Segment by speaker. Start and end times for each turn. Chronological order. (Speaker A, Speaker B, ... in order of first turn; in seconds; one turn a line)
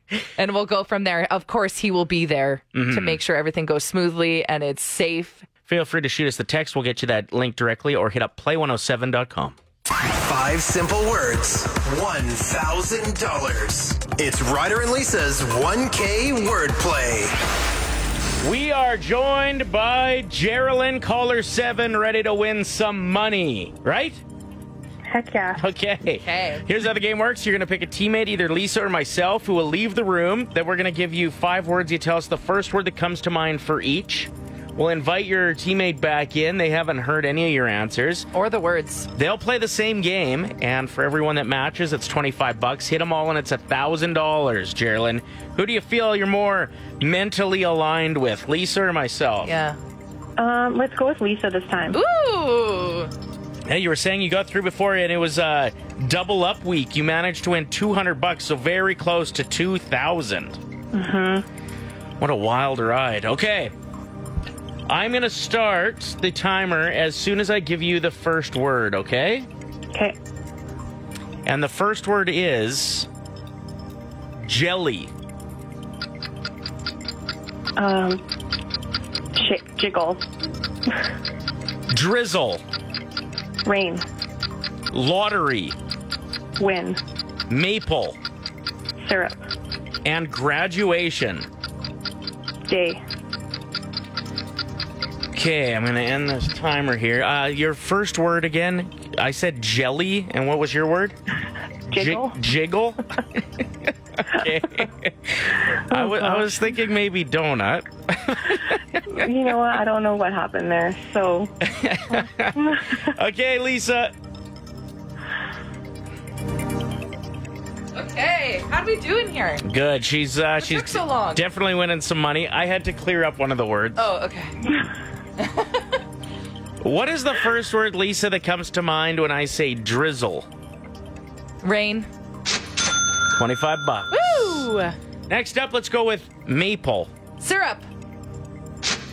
Speaker A: 0.4-5.5
Speaker B: 2.7-3.2
Speaker B: 5.7-9.6
Speaker C: 10.1-17.3
Speaker B: 18.4-24.2
Speaker D: 25.1-25.6
Speaker B: 25.6-38.3
Speaker A: 26.2-26.6
Speaker A: 38.3-39.1
Speaker B: 39.1-49.5
Speaker A: 49.4-49.8
Speaker D: 50.4-52.0
Speaker A: 51.9-53.1
Speaker B: 53.6-60.6
Speaker D: 60.9-61.5
Speaker B: 62.2-63.7
Speaker B: 64.9-69.5
Speaker B: 71.4-73.1
Speaker B: 74.4-75.1
Speaker D: 77.8-78.2
Speaker D: 79.3-80.2
Speaker B: 81.9-82.6
Speaker D: 83.6-84.0
Speaker B: 84.9-85.7
Speaker D: 86.6-87.0
Speaker B: 87.5-88.2
Speaker D: 89.0-89.4
Speaker B: 90.0-91.5
Speaker D: 92.7-93.0
Speaker B: 95.3-101.2
Speaker D: 101.9-102.4
Speaker B: 101.9-103.4
Speaker B: 104.2-109.0
Speaker D: 105.9-106.2
Speaker D: 109.1-111.5
Speaker B: 111.6-114.1
Speaker D: 112.5-113.1
Speaker A: 117.9-119.7
Speaker B: 119.6-124.0
Speaker A: 120.6-121.4
Speaker A: 124.0-124.6
Speaker A: 125.4-126.0
Speaker B: 126.8-130.5
Speaker A: 131.6-132.1
Speaker B: 133.3-134.7
Speaker A: 134.1-134.9
Speaker B: 135.3-137.1
Speaker A: 137.4-137.8